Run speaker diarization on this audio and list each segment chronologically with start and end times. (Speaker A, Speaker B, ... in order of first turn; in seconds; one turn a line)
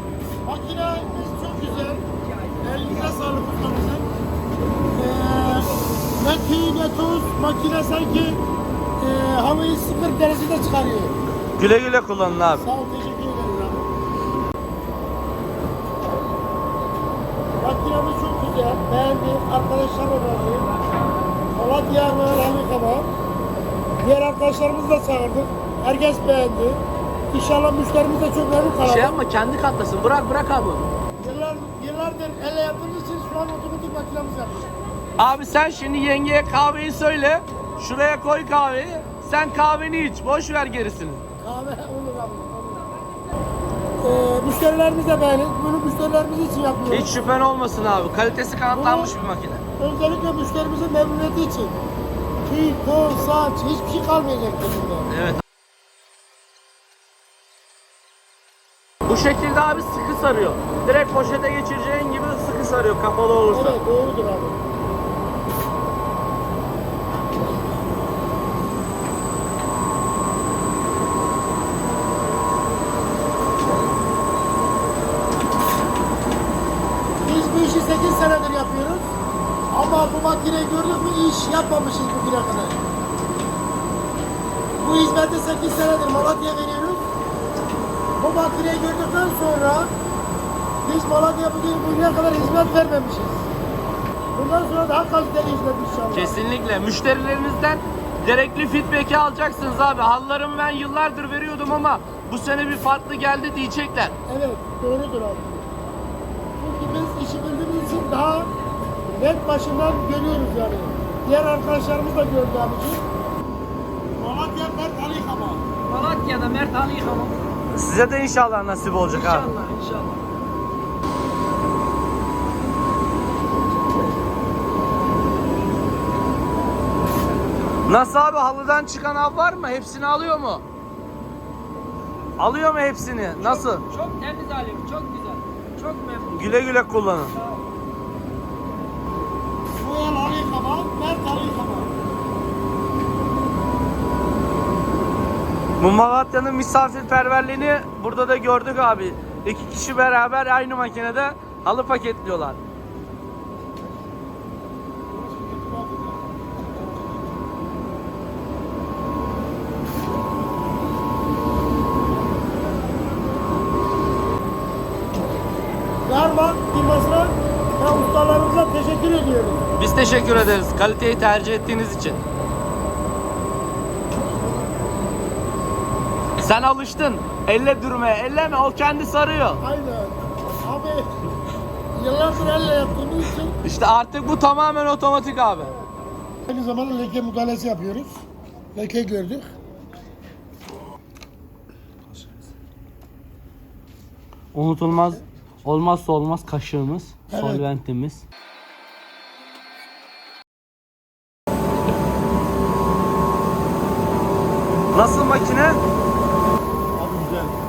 Speaker A: 0.5-2.0
Speaker A: 2.6-4.1
Speaker A: 5.0-8.4
Speaker A: 9.0-11.2
Speaker B: 11.6-12.6
Speaker A: 12.6-13.8
Speaker A: 17.6-20.7
Speaker A: 21.5-23.1
Speaker A: 24.0-29.2
Speaker B: 28.8-30.9
Speaker A: 31.2-34.7
Speaker B: 35.2-41.2
Speaker A: 41.4-42.8
Speaker A: 44.0-47.1
Speaker B: 46.9-49.6
Speaker A: 48.7-49.1
Speaker A: 49.8-51.8
Speaker A: 52.5-55.1
Speaker B: 55.1-55.4
Speaker B: 59.1-63.8
Speaker A: 63.5-64.6
Speaker A: 77.2-79.1
Speaker A: 79.7-82.8
Speaker A: 84.8-87.1
Speaker A: 88.2-89.9
Speaker A: 90.8-93.5
Speaker A: 94.3-96.4
Speaker B: 96.1-104.2
Speaker A: 104.3-105.7
Speaker A: 106.6-108.5
Speaker A: 109.1-113.0
Speaker A: 114.2-115.7
Speaker C: 115.9-117.4
Speaker B: 117.7-119.5
Speaker C: 119.1-120.3
Speaker B: 127.9-130.6
Speaker B: 132.4-133.9
Speaker C: 133.4-136.6
Speaker B: 136.3-137.3
Speaker C: 137.3-137.7
Speaker A: 139.8-141.9
Speaker B: 145.8-152.6
Speaker A: 166.1-169.7
Speaker B: 169.8-172.2
Speaker B: 176.4-179.6
Speaker A: 179.6-181.2
Speaker A: 181.9-183.6
Speaker B: 183.6-185.7
Speaker A: 186.4-188.2
Speaker A: 188.8-189.5
Speaker B: 194.5-198.2
Speaker A: 197.3-197.7
Speaker B: 204.9-205.8
Speaker A: 207.0-207.5